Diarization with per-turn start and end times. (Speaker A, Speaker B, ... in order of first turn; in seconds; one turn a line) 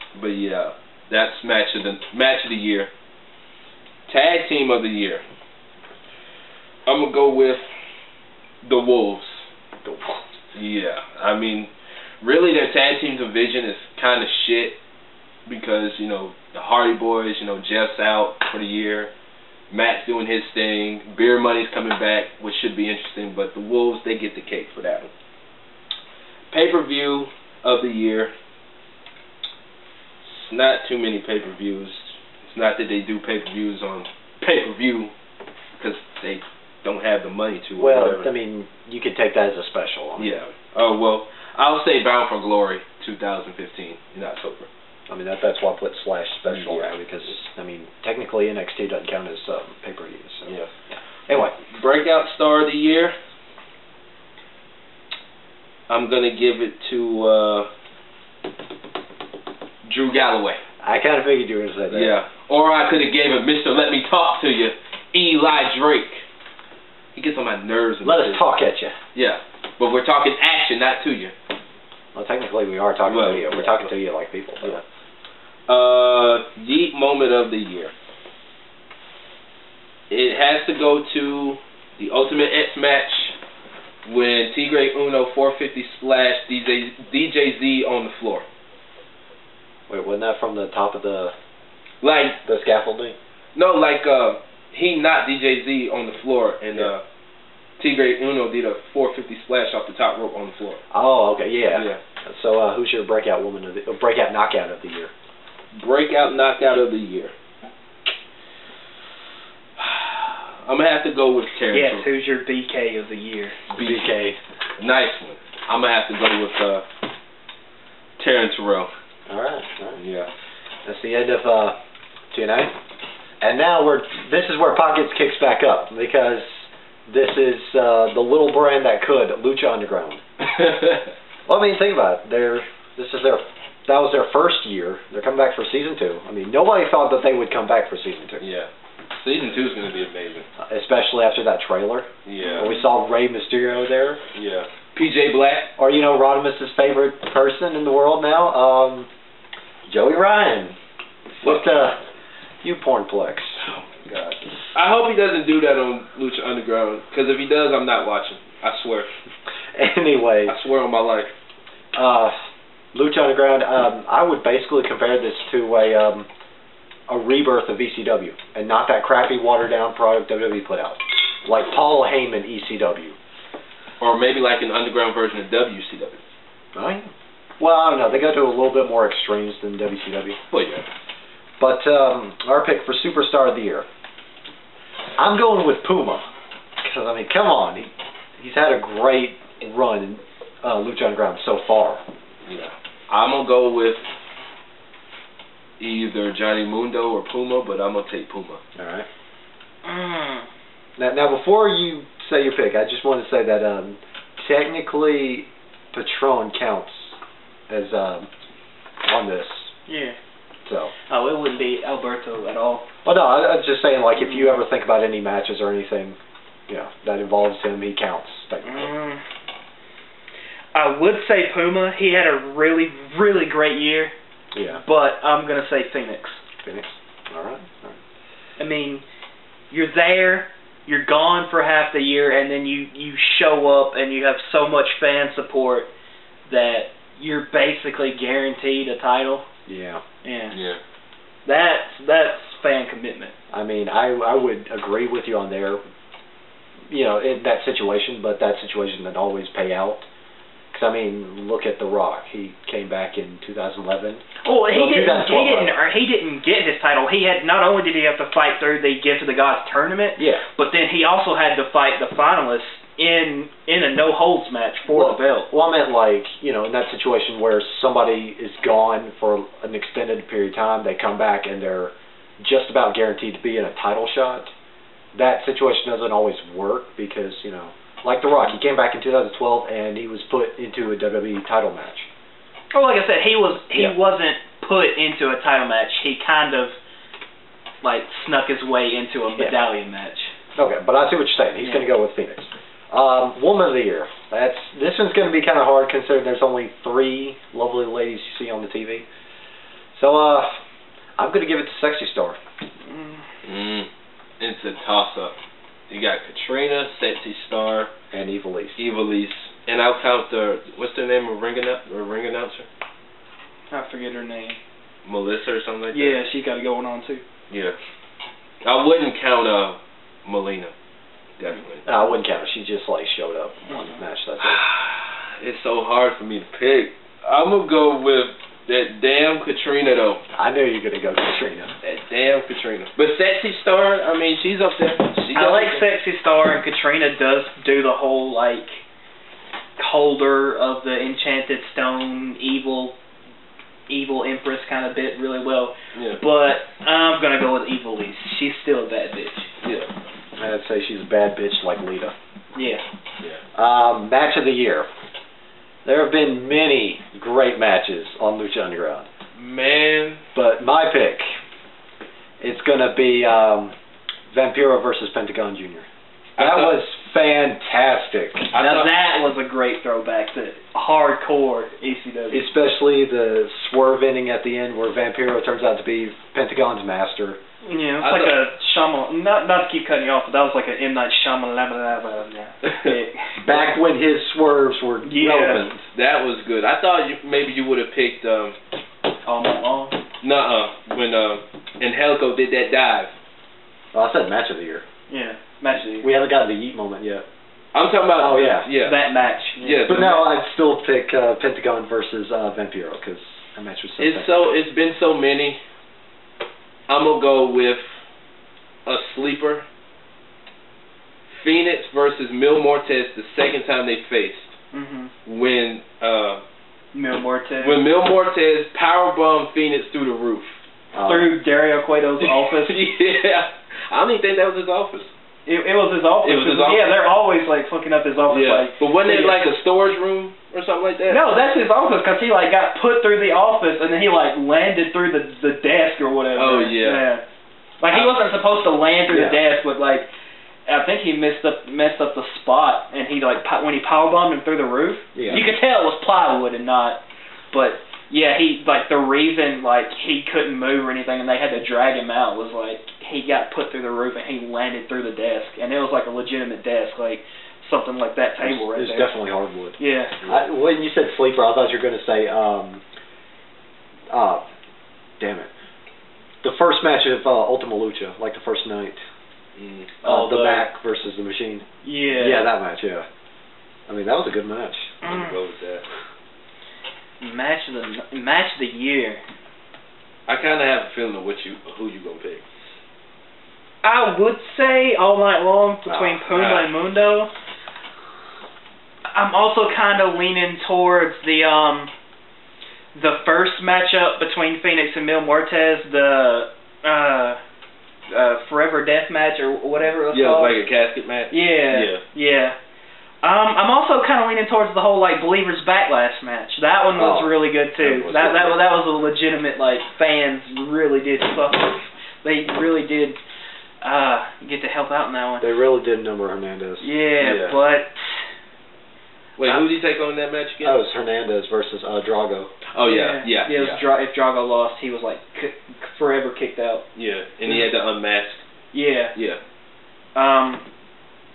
Speaker A: 0.1-2.9
Speaker A: 4.1-5.2
Speaker A: 6.8-7.7
Speaker A: 8.6-9.5
Speaker B: 9.8-10.2
Speaker A: 10.5-14.8
Speaker A: 15.4-19.1
Speaker A: 19.7-25.1
Speaker A: 26.5-28.3
Speaker A: 30.2-35.1
Speaker A: 35.8-38.3
Speaker B: 37.8-40.4
Speaker A: 40.2-44.7
Speaker B: 45.1-51.5
Speaker A: 46.5-46.9
Speaker A: 51.5-53.1
Speaker A: 55.9-57.7
Speaker A: 59.9-60.6
Speaker B: 60.8-62.1
Speaker A: 61.9-66.2
Speaker A: 67.1-68.4
Speaker B: 68.0-69.0
Speaker A: 69.1-71.3
Speaker B: 72.1-74.8
Speaker A: 73.0-73.9
Speaker A: 75.7-77.9
Speaker A: 80.1-83.4
Speaker A: 84.0-88.5
Speaker B: 89.9-91.3
Speaker A: 92.0-92.4
Speaker B: 92.4-93.2
Speaker A: 93.5-97.0
Speaker A: 97.8-100.8
Speaker B: 100.9-105.1
Speaker A: 101.7-102.0
Speaker A: 105.7-107.3
Speaker A: 109.8-112.1
Speaker C: 111.7-113.6
Speaker A: 113.7-114.1
Speaker B: 113.8-114.4
Speaker A: 114.8-116.8
Speaker A: 118.2-118.9
Speaker B: 119.3-120.0
Speaker A: 120.0-120.3
Speaker B: 120.8-121.8
Speaker B: 122.3-122.8
Speaker B: 123.4-130.2
Speaker A: 130.4-131.1
Speaker B: 131.5-138.4
Speaker A: 138.4-140.5
Speaker B: 140.6-144.2
Speaker A: 142.2-142.7
Speaker C: 142.4-142.8
Speaker A: 144.3-145.7
Speaker B: 145.8-149.1
Speaker B: 149.9-150.8
Speaker B: 151.4-152.0
Speaker A: 151.4-151.8
Speaker B: 152.6-153.6
Speaker A: 153.6-159.1
Speaker B: 159.7-160.6
Speaker A: 160.4-161.3
Speaker B: 161.9-162.3
Speaker B: 162.9-166.3
Speaker B: 167.1-173.2
Speaker A: 174.0-176.2
Speaker B: 176.7-180.4
Speaker A: 180.5-180.9
Speaker B: 181.6-183.8
Speaker B: 185.2-186.2
Speaker B: 186.8-192.0
Speaker A: 192.4-194.1
Speaker A: 195.8-198.6
Speaker B: 198.8-199.1
Speaker C: 199.8-200.5
Speaker B: 201.0-207.2
Speaker B: 207.7-208.3
Speaker B: 209.0-209.7
Speaker C: 209.9-210.2
Speaker B: 210.7-210.9
Speaker C: 211.1-212.9
Speaker B: 213.0-216.2
Speaker C: 214.2-214.6
Speaker B: 216.7-218.9
Speaker C: 218.6-219.2
Speaker C: 220.7-224.1
Speaker B: 224.5-224.8
Speaker C: 224.8-226.4
Speaker B: 226.6-228.0
Speaker C: 228.6-229.0
Speaker C: 229.7-235.9
Speaker C: 236.5-239.4
Speaker B: 239.7-240.0
Speaker C: 240.2-240.6
Speaker A: 240.5-240.8
Speaker C: 241.4-243.3
Speaker B: 243.5-245.8
Speaker B: 246.9-250.1
Speaker B: 250.7-255.8
Speaker C: 254.4-265.5
Speaker B: 260.2-260.4
Speaker B: 264.9-274.5
Speaker B: 275.1-282.1
Speaker C: 282.7-286.8
Speaker C: 287.8-290.3
Speaker B: 290.6-299.0
Speaker C: 291.6-291.9
Speaker B: 299.9-300.6
Speaker B: 301.2-302.4
Speaker C: 302.8-303.2
Speaker A: 303.4-305.3
Speaker A: 305.9-307.9
Speaker B: 308.1-308.8
Speaker A: 308.8-312.7
Speaker C: 313.7-314.6
Speaker A: 315.0-316.2
Speaker C: 315.9-317.2
Speaker A: 317.5-317.8
Speaker A: 318.6-320.7
Speaker A: 321.4-321.8
Speaker B: 321.8-324.6
Speaker C: 323.7-324.0
Speaker A: 324.4-330.2
Speaker B: 330.3-331.7
Speaker A: 331.8-335.9
Speaker C: 335.3-338.8
Speaker C: 339.8-342.9
Speaker C: 343.9-349.5
Speaker A: 345.9-346.2
Speaker A: 349.6-349.9
Speaker B: 350.4-352.1
Speaker C: 352.5-352.8
Speaker B: 353.5-354.9
Speaker B: 355.8-359.1
Speaker A: 359.3-360.2
Speaker B: 360.3-361.4
Speaker B: 362.4-363.7
Speaker B: 364.3-368.5
Speaker A: 366.4-366.8
Speaker A: 368.5-368.9
Speaker C: 368.5-372.4
Speaker B: 372.3-377.4
Speaker C: 377.6-383.8
Speaker A: 378.0-378.4
Speaker A: 382.6-383.0
Speaker B: 383.4-385.8
Speaker C: 385.0-385.6
Speaker A: 385.9-388.6
Speaker C: 389.2-390.0
Speaker A: 390.2-393.1
Speaker B: 393.9-394.8
Speaker C: 395.1-396.1
Speaker B: 396.0-397.2
Speaker A: 397.7-399.0
Speaker B: 398.2-398.7
Speaker C: 398.8-400.1
Speaker A: 399.6-400.3
Speaker B: 399.9-404.3
Speaker A: 404.0-405.6
Speaker A: 406.9-407.9
Speaker A: 408.9-409.6
Speaker A: 411.4-414.5
Speaker C: 414.7-415.1
Speaker A: 415.2-416.4
Speaker C: 416.9-417.8
Speaker A: 417.6-420.6
Speaker B: 420.9-421.3
Speaker C: 421.0-422.8
Speaker A: 422.2-425.1
Speaker C: 425.4-429.4
Speaker A: 426.2-426.9
Speaker A: 428.3-431.2
Speaker C: 431.1-437.2
Speaker A: 436.3-437.1
Speaker C: 437.8-440.1
Speaker A: 437.9-438.1
Speaker B: 439.1-439.4
Speaker C: 440.6-459.1
Speaker B: 445.1-445.4
Speaker B: 458.4-462.8
Speaker C: 459.8-460.2
Speaker B: 464.1-464.4
Speaker B: 465.2-465.5
Speaker B: 466.4-469.0
Speaker A: 469.6-469.9
Speaker C: 470.0-470.7
Speaker B: 470.0-473.1
Speaker C: 471.8-472.5
Speaker B: 473.9-475.0
Speaker C: 475.0-475.4
Speaker A: 475.0-475.8
Speaker C: 477.2-479.2
Speaker A: 480.3-482.4
Speaker C: 483.8-487.3
Speaker B: 485.9-486.2
Speaker A: 486.3-486.7
Speaker C: 489.1-491.9
Speaker C: 492.9-497.4
Speaker C: 498.1-500.6
Speaker A: 500.1-502.0
Speaker C: 501.3-502.6
Speaker C: 503.2-513.2
Speaker B: 506.9-508.6
Speaker C: 513.8-515.5
Speaker B: 515.4-516.9
Speaker C: 516.8-518.0
Speaker A: 517.2-517.6
Speaker A: 519.4-520.8
Speaker B: 520.6-522.5
Speaker A: 522.7-523.8
Speaker C: 522.8-526.9
Speaker A: 526.9-528.4
Speaker C: 528.7-529.1
Speaker A: 529.1-529.4
Speaker C: 530.1-530.6